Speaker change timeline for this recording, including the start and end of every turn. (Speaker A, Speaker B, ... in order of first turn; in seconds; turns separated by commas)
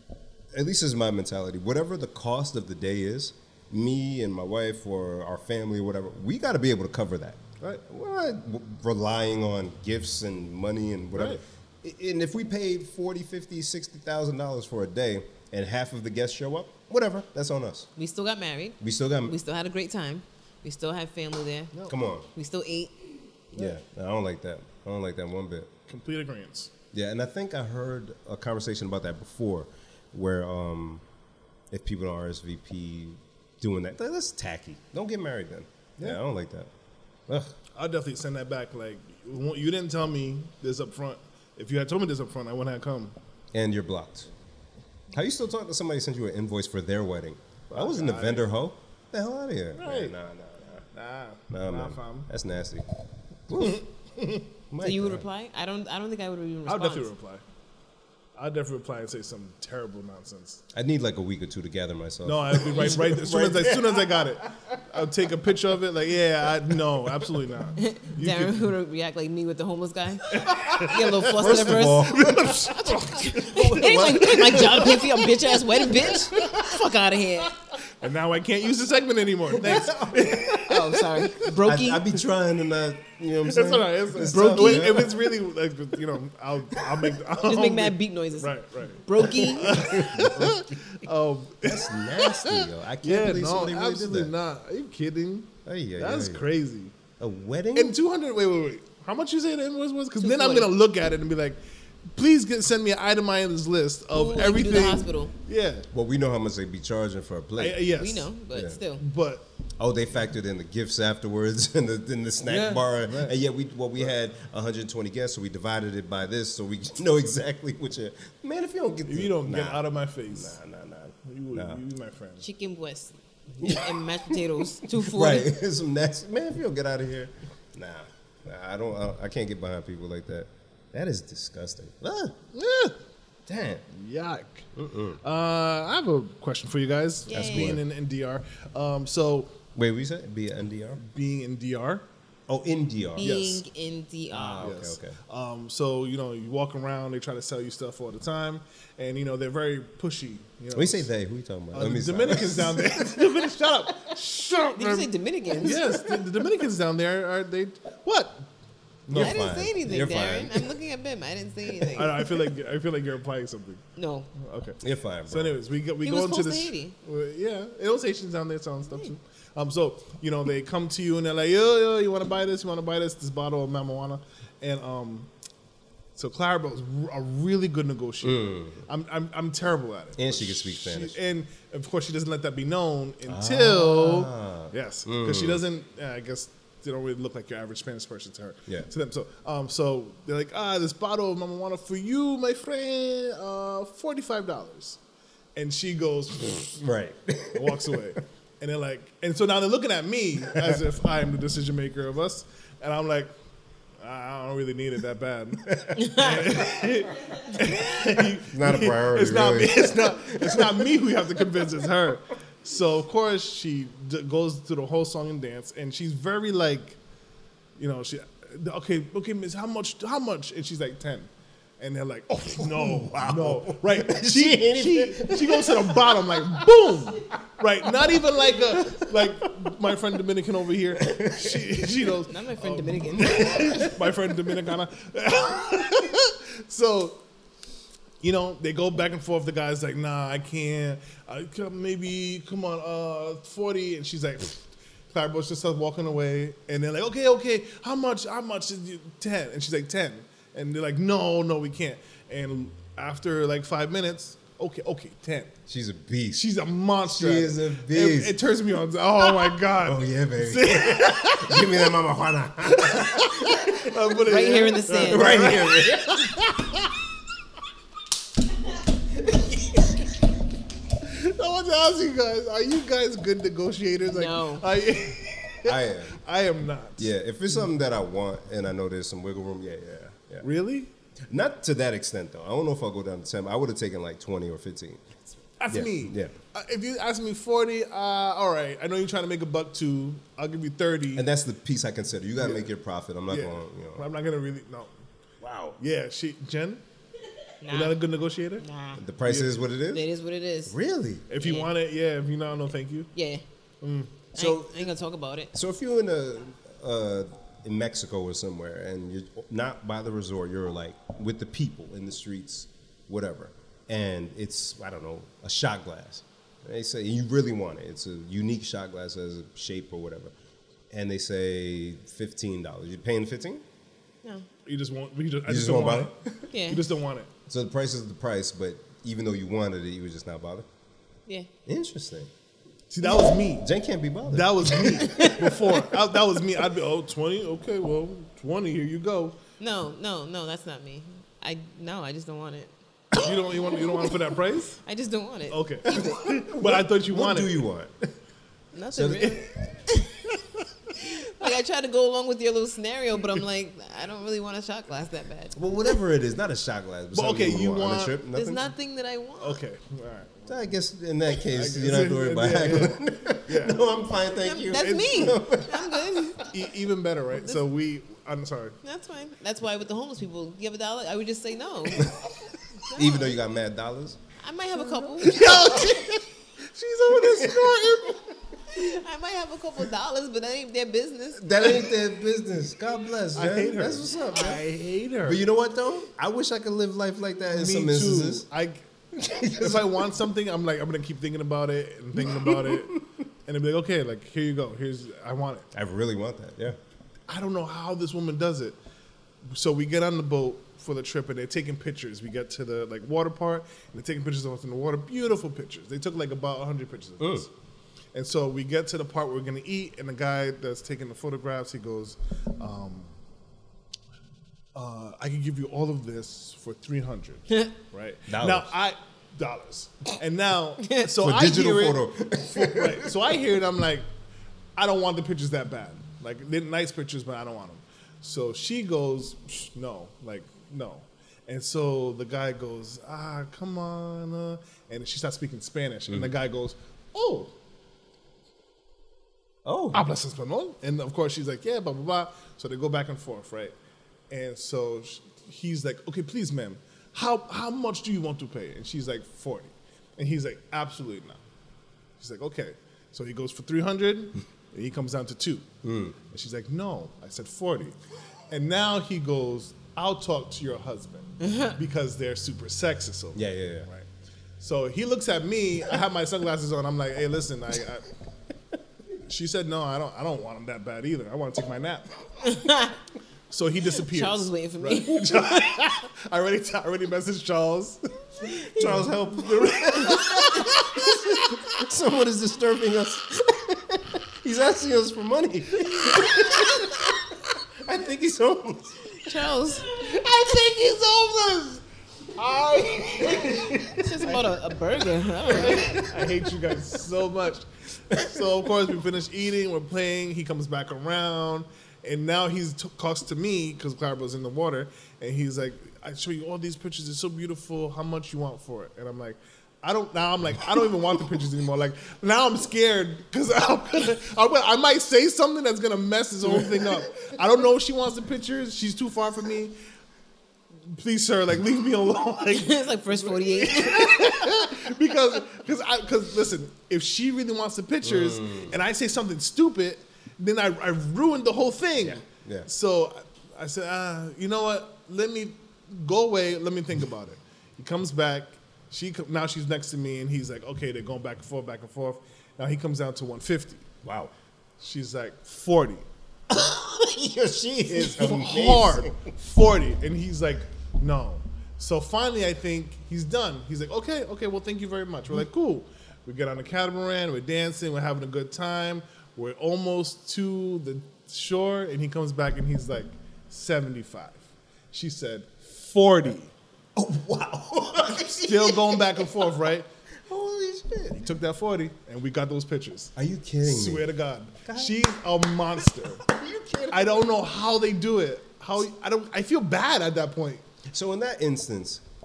Speaker A: 0.5-17.9, Speaker B: 11.1-11.4, Speaker C: 18.0-21.7, Speaker A: 18.8-19.4, Speaker A: 21.9-22.3, Speaker C: 22.3-23.1, Speaker A: 23.5-25.7, Speaker B: 25.9-26.7, Speaker A: 26.9-31.0, Speaker A: 31.7-36.7, Speaker A: 37.3-37.5, Speaker B: 37.7-43.1, Speaker A: 43.5-44.3, Speaker A: 45.1-50.8, Speaker B: 47.7-48.5, Speaker B: 49.7-50.1, Speaker B: 50.9-52.3, Speaker A: 51.5-52.9, Speaker A: 53.5-53.8, Speaker B: 53.5-54.5, Speaker A: 54.7-55.2, Speaker C: 54.8-57.1, Speaker B: 56.6-57.4, Speaker B: 58.4-60.6, Speaker A: 60.7-64.2, Speaker B: 62.2-68.6, Speaker C: 67.8-77.6, Speaker B: 70.3-75.3, Speaker A: 71.3-75.0, Speaker B: 76.0-76.8, Speaker B: 77.9-81.5, Speaker A: 79.6-80.7, Speaker C: 80.6-82.0, Speaker A: 81.6-85.2, Speaker B: 83.4-96.9, Speaker C: 84.3-85.1, Speaker C: 87.4-89.8, Speaker A: 89.7-90.9, Speaker A: 91.6-94.3, Speaker A: 95.6-96.5, Speaker A: 97.2-98.0, Speaker B: 97.7-101.6, Speaker C: 100.2-100.7, Speaker B: 102.1-105.9, Speaker C: 104.1-105.3, Speaker A: 105.9-107.9, Speaker B: 107.6-108.3, Speaker C: 108.0-109.0, Speaker A: 108.5-108.8, Speaker B: 108.9-109.4, Speaker A: 109.8-121.8, Speaker B: 112.4-113.4, Speaker B: 119.0-120.6, Speaker B: 121.2-122.4, Speaker C: 122.4-125.5, Speaker A: 123.6-132.4, Speaker B: 132.5-132.9, Speaker A: 133.5-133.8, Speaker B: 133.9-134.7, Speaker A: 134.7-135.2, Speaker B: 135.2-139.5, Speaker C: 137.3-137.8, Speaker A: 137.3-137.8, Speaker A: 139.7-141.0, Speaker B: 141.0-142.1, Speaker A: 142.5-143.6, Speaker C: 143.2-144.7, Speaker A: 144.3-145.2, Speaker B: 144.6-151.1, Speaker A: 150.7-153.2, Speaker B: 151.7-158.5, Speaker C: 154.7-155.9, Speaker B: 159.1-159.4, Speaker A: 159.1-160.7, Speaker C: 159.1-162.3, Speaker B: 161.9-163.8, Speaker C: 163.9-164.3, Speaker B: 164.3-175.3, Speaker A: 164.8-165.6, Speaker C: 166.0-166.9, Speaker B: 176.2-195.0, Speaker A: 178.2-178.8, Speaker A: 180.2-181.2, Speaker A: 183.3-185.6, Speaker B: 195.6-196.8, Speaker A: 196.7-198.0, Speaker B: 197.5-203.3, Speaker A: 200.5-200.8, Speaker B: 204.0-217.0, Speaker A: 205.7-206.0, Speaker C: 206.0-206.5, Speaker A: 208.4-211.8, Speaker B: 217.8-237.2, Speaker A: 222.8-226.7, Speaker A: 228.7-229.7, Speaker A: 231.0-231.9, Speaker C: 232.2-233.7, Speaker A: 233.2-234.2, Speaker B: 238.2-255.5, Speaker A: 255.7-256.4, Speaker B: 256.3-261.8, Speaker A: 257.1-258.4, Speaker A: 259.6-264.0, Speaker B: 262.7-266.9, Speaker C: 264.2-265.5, Speaker A: 265.1-266.3, Speaker B: 271.0-277.1, Speaker C: 274.0-274.7, Speaker A: 275.6-276.2, Speaker A: 277.0-280.5, Speaker B: 280.4-280.9, Speaker A: 281.3-285.1, Speaker B: 285.6-291.3, Speaker A: 285.7-286.4, Speaker A: 291.1-294.0, Speaker B: 292.4-292.7, Speaker B: 293.3-294.9, Speaker A: 295.4-295.8, Speaker B: 295.8-296.8, Speaker C: 297.6-298.0, Speaker B: 297.7-298.6, Speaker C: 298.6-299.0, Speaker A: 298.9-300.0, Speaker B: 299.2-299.6, Speaker C: 299.9-300.7, Speaker A: 300.6-301.2, Speaker B: 301.3-303.1, Speaker C: 301.4-301.7, Speaker C: 303.1-303.4, Speaker B: 303.8-304.3, Speaker C: 304.3-305.5, Speaker A: 304.3-304.9, Speaker A: 305.5-320.3, Speaker A: 320.9-323.6, Speaker B: 324.6-326.1, Speaker A: 325.5-326.5, Speaker C: 326.5-326.9, Speaker B: 326.6-327.3, Speaker A: 327.5-330.7, Speaker A: 331.6-332.3, Speaker B: 332.9-333.7, Speaker A: 333.6-335.0, Speaker B: 334.2-339.4, Speaker C: 334.8-335.9, Speaker C: 339.6-342.7, Speaker B: 343.2-344.8, Speaker C: 344.8-346.4, Speaker B: 345.5-347.6, Speaker A: 345.9-348.1, Speaker C: 348.7-350.2, Speaker A: 348.9-349.4, Speaker C: 350.9-355.6, Speaker A: 355.6-358.7, Speaker B: 357.1-358.2, Speaker C: 358.3-359.6, Speaker B: 359.4-360.6, Speaker A: 360.5-366.4, Speaker B: 361.4-363.8, Speaker C: 364.4-366.5, Speaker B: 364.8-365.2, Speaker B: 366.4-368.8, Speaker C: 367.3-367.6, Speaker C: 368.8-372.2, Speaker A: 372.0-372.3, Speaker C: 372.8-373.3, Speaker A: 372.9-374.2, Speaker C: 374.4-375.8, Speaker B: 375.2-378.2, Speaker A: 375.2-376.2, Speaker A: 377.1-378.2, Speaker C: 378.7-381.9, Speaker A: 381.4-384.6, Speaker B: 383.3-385.4, Speaker A: 385.2-388.4, Speaker B: 387.5-388.9, Speaker A: 389.1-390.0, Speaker B: 389.5-392.9, Speaker A: 392.2-393.1, Speaker B: 393.4-395.7, Speaker A: 395.7-396.8, Speaker B: 397.3-398.8, Speaker B: 399.4-407.5, Speaker A: 407.2-407.5, Speaker B: 408.1-413.1, Speaker B: 414.7-424.0, Speaker A: 418.3-418.7, Speaker C: 420.8-421.1, Speaker A: 421.2-423.4, Speaker B: 424.8-437.5, Speaker A: 439.6-440.0, Speaker B: 439.9-443.7, Speaker B: 444.3-451.4, Speaker B: 452.2-455.7, Speaker A: 455.8-456.2, Speaker B: 456.2-458.0, Speaker B: 458.5-464.1, Speaker C: 461.4-461.8, Speaker A: 463.3-463.9, Speaker B: 464.6-468.1, Speaker B: 469.2-472.2, Speaker C: 472.4-473.0, Speaker B: 473.5-479.0, Speaker C: 474.0-475.8, Speaker C: 478.5-478.9, Speaker A: 478.7-487.0, Speaker B: 479.6-481.1, Speaker A: 487.8-489.2, Speaker C: 489.2-489.9, Speaker B: 490.0-491.8, Speaker B: 492.4-494.4, Speaker A: 493.2-494.0, Speaker C: 493.9-496.0, Speaker B: 495.5-519.7, Speaker A: 495.7-496.1, Speaker B: 520.9-543.9, Speaker C: 522.5-524.6, Speaker A: 528.0-528.8, Speaker A: 532.0-532.7, Speaker A: 544.0-544.3, Speaker B: 544.8-546.0, Speaker A: 546.5-549.3, Speaker B: 547.9-566.5, Speaker A: 567.0-569.3, Speaker B: 568.4-569.9, Speaker A: 570.3-571.2, Speaker B: 571.1-576.2, Speaker A: 573.1-574.1, Speaker A: 574.6-575.0, Speaker A: 576.1-577.3, Speaker B: 576.9-580.6, Speaker A: 580.9-582.0